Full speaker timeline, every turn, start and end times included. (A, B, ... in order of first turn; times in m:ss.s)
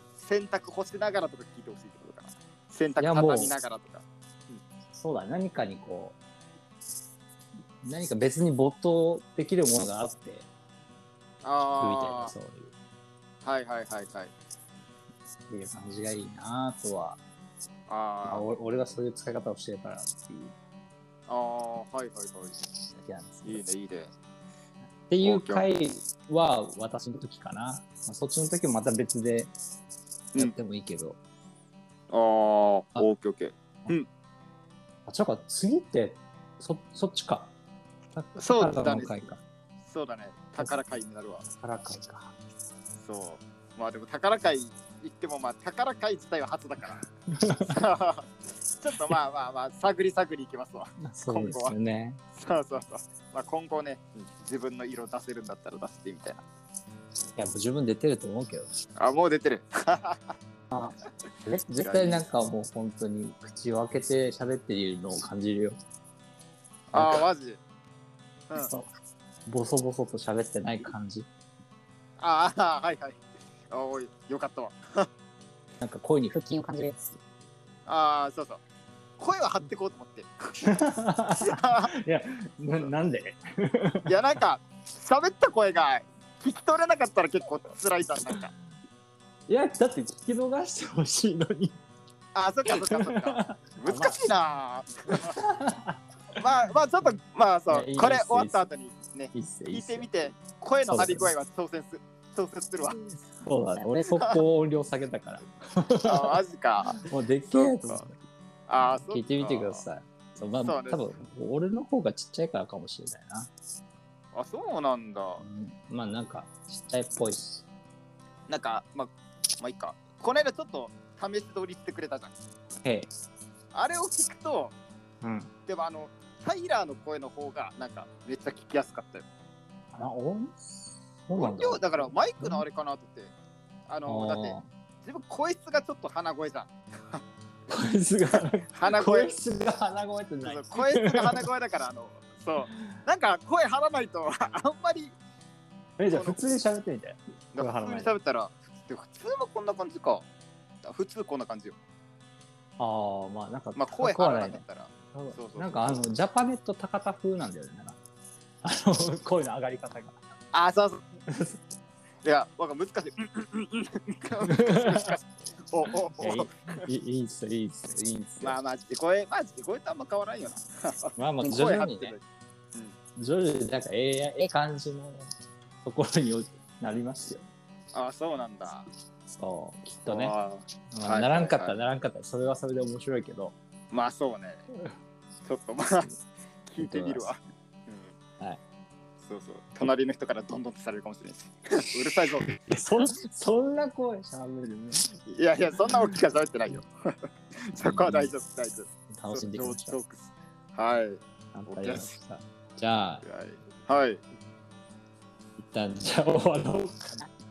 0:00.2-0:04.6 A
0:03.0-0:03.5 B
0:05.0-0:06.2 B
0:07.8-0:10.5 B
0:11.4-0:12.3 A
0:11.8-0:12.7 B
0:13.4-0:14.3 A
0:15.5-0:17.2 B
0:17.9-0:18.4 A
0:18.2-0:20.5 B
0:21.3-0:22.6 A
0:22.9-0:23.6 B
0:23.4-0:24.1 A
0:25.1-0:29.5 B
0:25.2-0:25.7 A
0:30.4-0:31.2 B
0:32.1-0:34.1 A
0:35.1-0:37.5 B
0:38.1-0:39.4 B
0:38.4-0:39.1 A
0:39.8-0:41.4 A
0:41.6-0:42.3 B
0:43.0-0:47.0 A
0:47.3-0:47.8 B
0:47.7-0:51.8 A
0:51.0-0:52.2 B
0:52.3-0:56.4 A
0:57.4-0:58.7 B
0:59.0-1:00.3 A
1:00.7-1:05.8 B
1:01.8-1:02.2 A
1:06.9-1:07.6 A
1:06.9-1:07.2 B
1:08.6-1:08.9 B
1:09.4-1:11.3 B
1:12.2-1:15.1 A
1:15.8-1:17.2 B
1:17.8-1:18.6 A
1:19.2-1:20.3 A
1:20.6-1:24.1 B
1:21.4-1:21.9 A
1:24.1-1:28.5 A
1:29.5-1:31.8 B
1:32.3-1:35.3 A
1:32.7-1:34.2 B
1:35.1-1:36.0 B
1:36.4-1:43.0 A
1:37.7-1:38.7 B
1:39.3-1:40.1 B
1:40.8-1:41.3 B
1:43.4-1:46.4 B
1:46.1-1:48.0 A
1:47.0-1:48.1 B
1:48.7-1:49.8 A
1:48.8-1:53.5 B
1:50.6-1:51.0 A
1:54.3-1:55.4 A
1:55.4-1:57.6 B
1:58.5-2:02.3 A
2:02.8-2:03.1 B
2:03.7-2:04.7 A
2:05.2-2:05.5 B
2:05.7-2:09.2 A
2:09.9-2:12.6 B
2:11.4-2:13.3 A
2:13.9-2:17.2 A
2:14.0-2:14.6 B
2:17.7-2:21.4 B
2:18.7-2:19.3 A
2:20.4-2:25.1 A
2:22.6-2:23.0 B
2:26.0-2:28.1 B
2:26.1-2:26.4 A
2:27.5-2:30.2 A
2:30.8-2:31.8 A
2:32.8-2:38.0 B
2:33.8-2:36.0 A
2:38.6-2:40.2 B
2:40.5-2:41.0 A
2:41.3-2:41.6 B
2:42.2-2:46.8 A
2:44.5-2:45.1 B
2:46.1-2:48.6 B
2:48.4-2:52.2 A
2:51.2-2:52.2 B
2:53.2-2:55.3 B
2:55.8-2:57.4 B
2:57.9-2:58.9 A
2:59.3-3:00.3 B
3:00.0-3:01.7 A
3:00.9-3:03.5 B
3:03.9-3:04.6 A
3:05.4-3:06.1 A
3:06.7-3:08.1 A
3:06.8-3:07.3 B
3:09.2-3:12.5 A
3:12.4-3:15.1 B
3:15.3-3:22.1 A
3:15.9-3:16.2 B
3:17.7-3:18.3 B
3:19.1-3:20.0 B
3:21.5-3:23.2 B
3:23.2-3:24.2 A
3:25.6-3:27.3 B